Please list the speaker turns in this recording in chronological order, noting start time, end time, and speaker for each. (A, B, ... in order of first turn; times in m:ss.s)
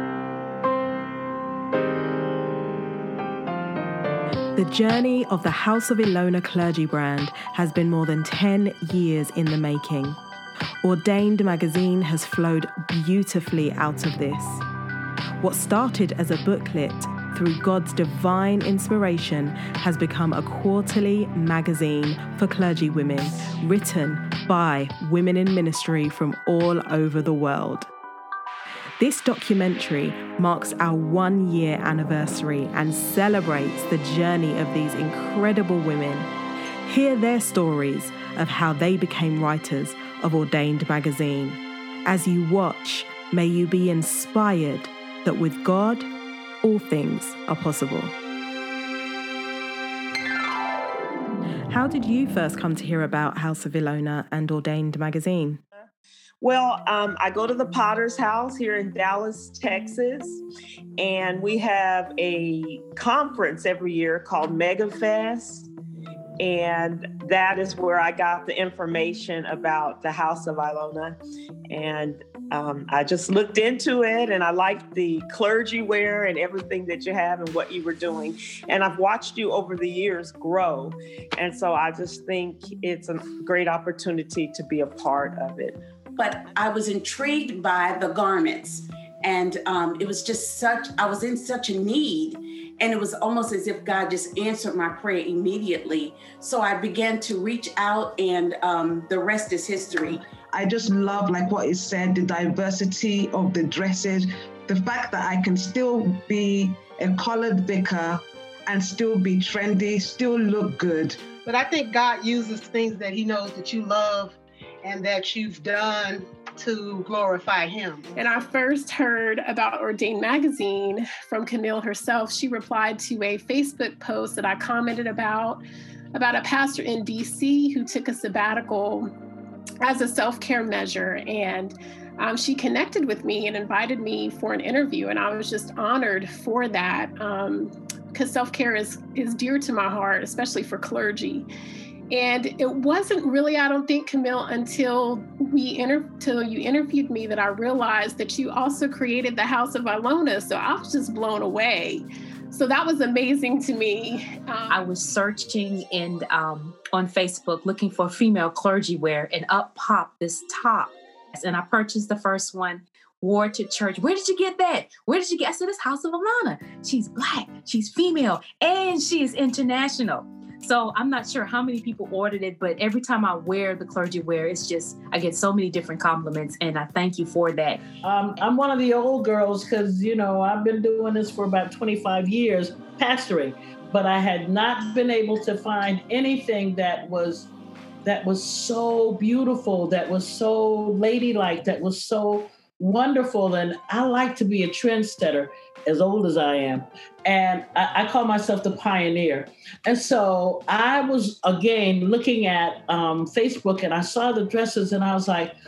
0:04.6-0:10.2 A
0:10.8-0:14.6 A
0:15.4-0:27.9 A
0:29.0-0:36.3 A
0:36.9-0:46.1 A
0:46.6-0:48.1 A
0:51.7-0:55.6 A
0:56.4-1:00.4 B
1:01.0-1:05.7 B
1:06.4-1:11.2 B
1:11.7-1:25.8 B
1:26.2-1:40.2 C
1:40.5-1:51.2 D
1:51.4-1:58.1 E
1:58.2-2:05.6 F
2:06.1-2:09.1 F
2:09.8-2:21.5 F
2:22.1-2:34.9 F
2:34.7-2:57.8 G
2:58.0-3:07.5 H
3:08.0-3:25.5 H